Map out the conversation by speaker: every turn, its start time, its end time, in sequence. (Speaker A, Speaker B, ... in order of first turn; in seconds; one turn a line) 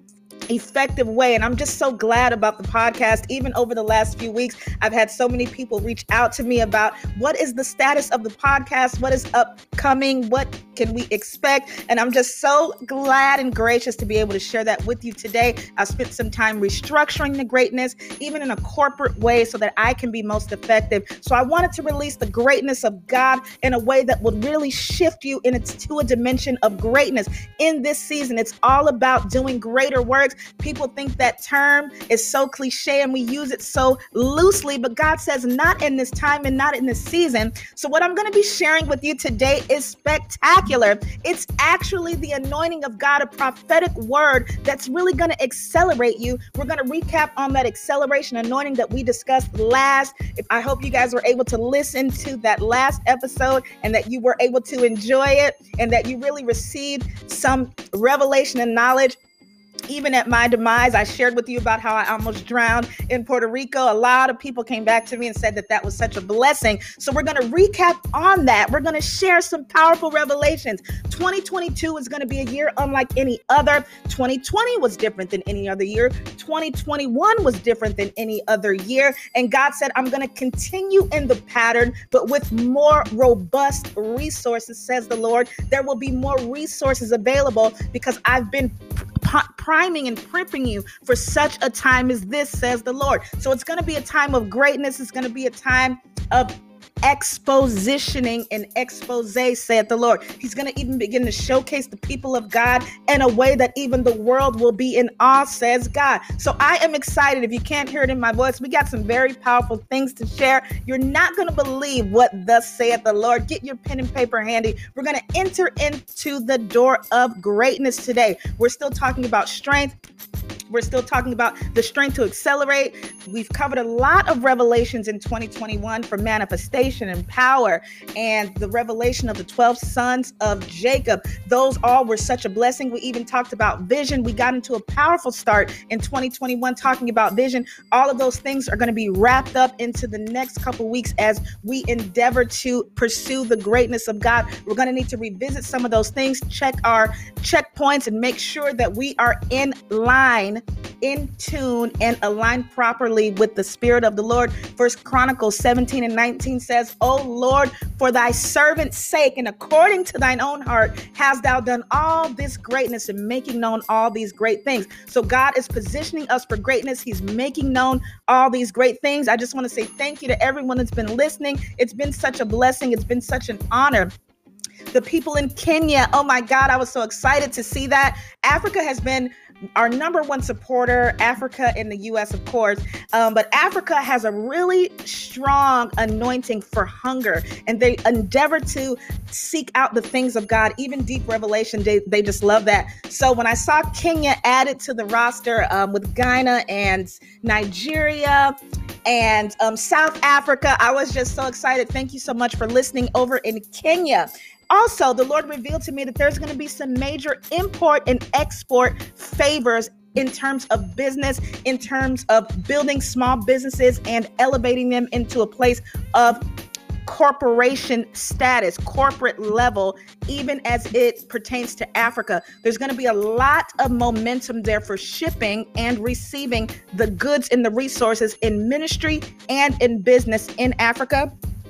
Speaker A: 0.5-59.2
Speaker A: 59.9-96.5
Speaker A: 97.0-119.9
Speaker A: 120.7-174.1
Speaker A: 174.9-198.5
Speaker A: 199.1-216.4
Speaker A: 217.0-231.3